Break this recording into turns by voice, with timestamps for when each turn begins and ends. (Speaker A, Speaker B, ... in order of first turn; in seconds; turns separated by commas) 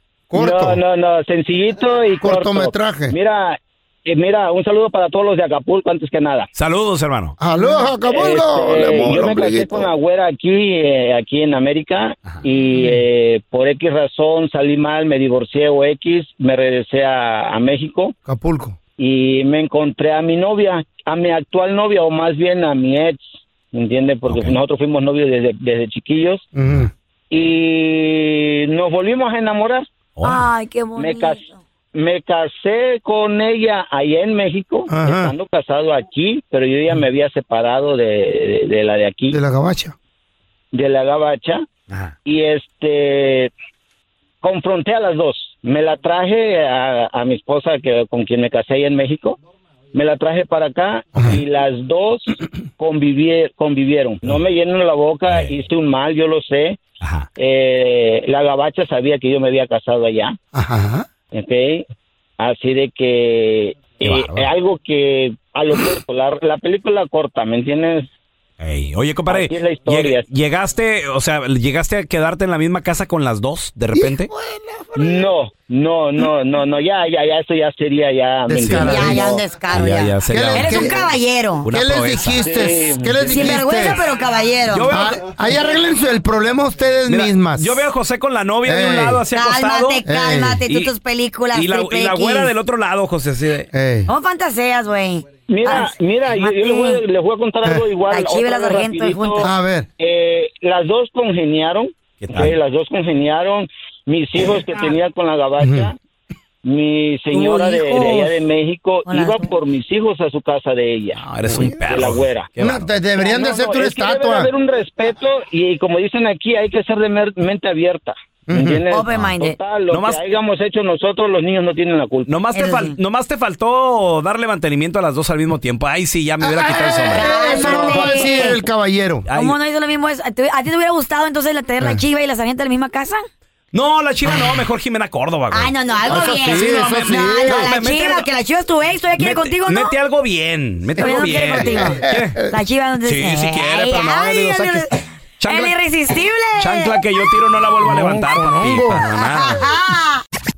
Speaker A: 0.3-0.8, Speaker B: 0.3-6.5, Speaker A: 2.2-3.2, Speaker C: 6.5-7.4, Speaker A: 7.4-9.9, Speaker B: 7.6-18.1, Speaker A: 12.7-13.0, Speaker A: 18.3-18.8, Speaker B: 19.0-26.4, Speaker C: 24.3-24.6, Speaker A: 26.5-26.9, Speaker B: 27.3-29.9, Speaker C: 30.2-30.5, Speaker D: 30.3-31.6, Speaker B: 31.0-39.4, Speaker A: 34.9-35.3, Speaker A: 39.3-40.0, Speaker B: 40.7-41.6, Speaker B: 42.3-43.5, Speaker B: 44.4-49.4, Speaker B: 49.9-56.8, Speaker C: 55.3-55.5, Speaker C: 57.0-57.3, Speaker B: 57.4-60.4, Speaker A: 60.5-61.1, Speaker B: 61.3-61.9, Speaker B: 62.4-68.1, Speaker C: 64.0-64.5, Speaker C: 68.6-74.3, Speaker B: 69.3-70.3, Speaker A: 73.9-75.2, Speaker B: 75.0-79.4, Speaker A: 78.5-79.3, Speaker C: 78.8-79.2, Speaker D: 78.8-81.7, Speaker C: 79.7-81.1, Speaker A: 80.3-81.1, Speaker C: 81.6-82.6, Speaker A: 81.7-84.0, Speaker B: 82.4-83.5, Speaker D: 83.2-85.0, Speaker C: 84.7-85.2, Speaker A: 84.9-87.8, Speaker C: 87.1-90.0, Speaker A: 88.6-89.3, Speaker D: 89.3-92.5, Speaker A: 90.0-90.6, Speaker C: 90.7-90.9, Speaker C: 91.5-93.7, Speaker A: 93.7-94.1, Speaker D: 94.1-97.0, Speaker B: 95.5-99.5, Speaker D: 98.1-99.5, Speaker A: 99.4-99.9, Speaker B: 100.0-106.0, Speaker C: 102.2-102.6, Speaker A: 105.6-105.9, Speaker B: 106.6-111.2, Speaker C: 107.3-108.4, Speaker D: 109.0-109.5, Speaker C: 111.1-112.9, Speaker A: 111.5-111.8, Speaker B: 111.9-112.5, Speaker A: 112.6-114.5, Speaker B: 113.2-122.3, Speaker A: 118.5-118.8, Speaker D: 118.9-119.6, Speaker C: 119.9-120.4, Speaker C: 122.3-128.4, Speaker D: 122.5-123.0, Speaker A: 126.4-129.3, Speaker D: 127.1-128.6, Speaker C: 129.3-129.6, Speaker D: 129.4-133.2, Speaker C: 133.7-138.3, Speaker D: 134.2-134.7, Speaker D: 135.5-139.9, Speaker A: 136.1-137.7, Speaker C: 139.2-142.4, Speaker D: 141.0-147.0, Speaker A: 141.0-142.6, Speaker C: 143.1-145.8, Speaker C: 146.6-149.6, Speaker A: 147.8-149.1, Speaker D: 149.2-150.2